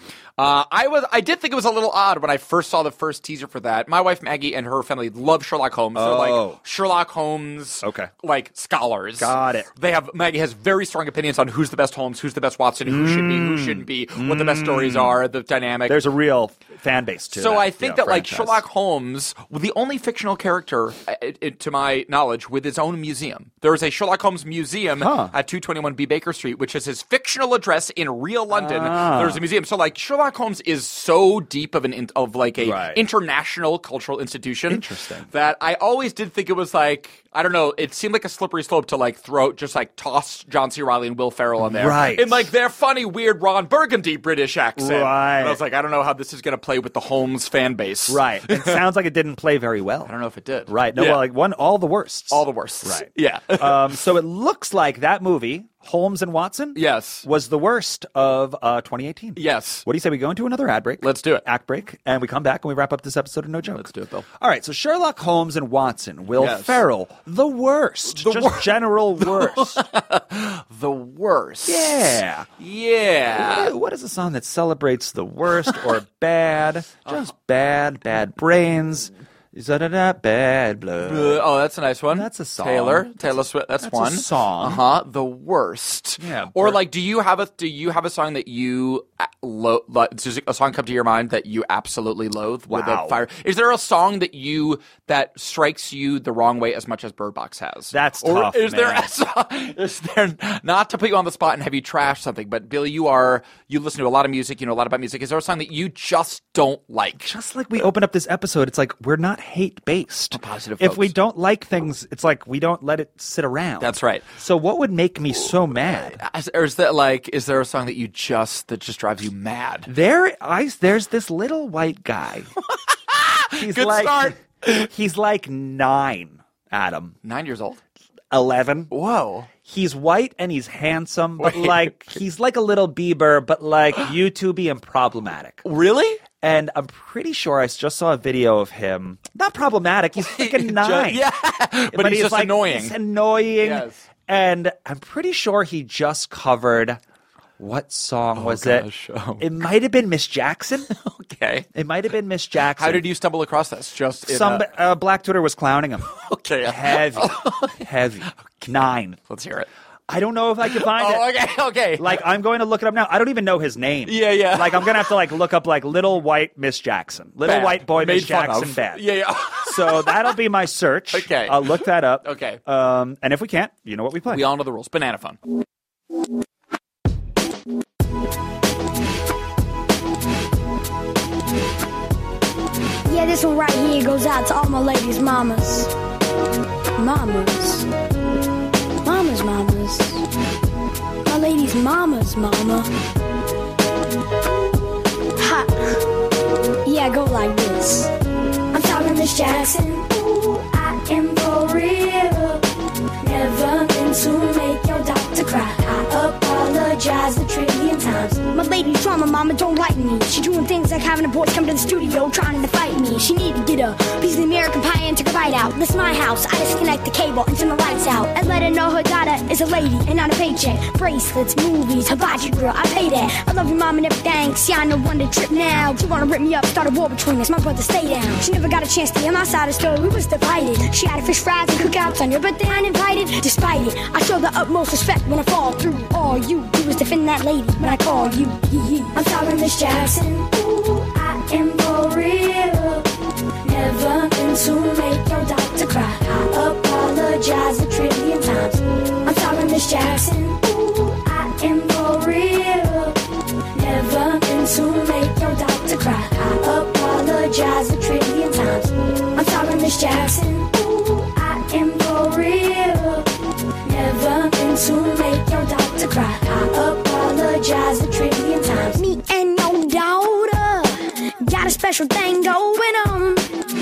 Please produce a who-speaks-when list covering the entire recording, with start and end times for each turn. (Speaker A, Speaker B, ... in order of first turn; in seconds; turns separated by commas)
Speaker A: 0.4-16.0, Speaker B: 6.0-6.6, Speaker B: 7.8-8.1, Speaker B: 9.2-9.7, Speaker B: 12.9-15.2, Speaker B: 15.9-18.6, Speaker A: 17.3-48.8, Speaker B: 25.0-25.3, Speaker B: 28.5-29.4, Speaker B: 32.6-33.0, Speaker B: 34.7-35.3, Speaker B: 41.6-42.5, Speaker B: 44.8-45.6, Speaker B: 48.1-50.1, Speaker A: 50.1-51.2, Speaker B: 50.7-69.8, Speaker A: 52.3-53.9, Speaker A: 56.8-57.2, Speaker A: 59.4-59.9, Speaker A: 61.0-61.4, Speaker A: 63.7-64.3, Speaker A: 66.4-66.8, Speaker A: 68.1-73.7, Speaker B: 71.7-72.5, Speaker B: 73.3-81.5, Speaker A: 81.0-107.3, Speaker B: 82.1-84.8, Speaker B: 86.2-86.8, Speaker B: 92.7-93.2, Speaker B: 97.9-99.1, Speaker B: 107.2-116.2, Speaker A: 110.3-111.1, Speaker A: 113.8-114.3, Speaker A: 116.0-119.9, Speaker B: 119.9-122.5, Speaker A: 122.7-124.9, Speaker B: 123.6-127.2, Speaker A: 127.2-127.8, Speaker B: 128.3-128.9, Speaker A: 128.9-129.5, Speaker B: 129.6-135.6, Speaker A: 131.4-131.9, Speaker A: 135.6-136.2, Speaker B: 136.4-141.2, Speaker A: 140.2-143.0, Speaker B: 141.9-147.0, Speaker A: 143.6-144.0, Speaker B: 147.6-148.9, Speaker A: 148.4-149.5, Speaker B: 149.4-150.9, Speaker A: 150.9-151.7, Speaker B: 151.7-153.0, Speaker A: 152.8-154.7, Speaker B: 154.2-156.1, Speaker A: 156.1-157.8, Speaker B: 156.6-159.2, Speaker A: 159.3-159.7, Speaker B: 160.1-161.3, Speaker A: 160.7-162.2, Speaker B: 162.0-169.1, Speaker A: 164.1-165.1, Speaker A: 167.4-170.3, Speaker B: 169.6-174.4, Speaker A: 171.1-172.6, Speaker A: 174.3-175.4, Speaker C: 183.1-185.9, Speaker C: 187.0-187.9, Speaker C: 189.1-190.2, Speaker C: 191.2-192.9, Speaker C: 195.4-196.0, Speaker C: 196.8-198.1, Speaker C: 198.7-202.7, Speaker C: 203.2-243.1, Speaker C: 243.6-253.2, Speaker C: 253.7-263.3, Speaker C: 263.8-273.5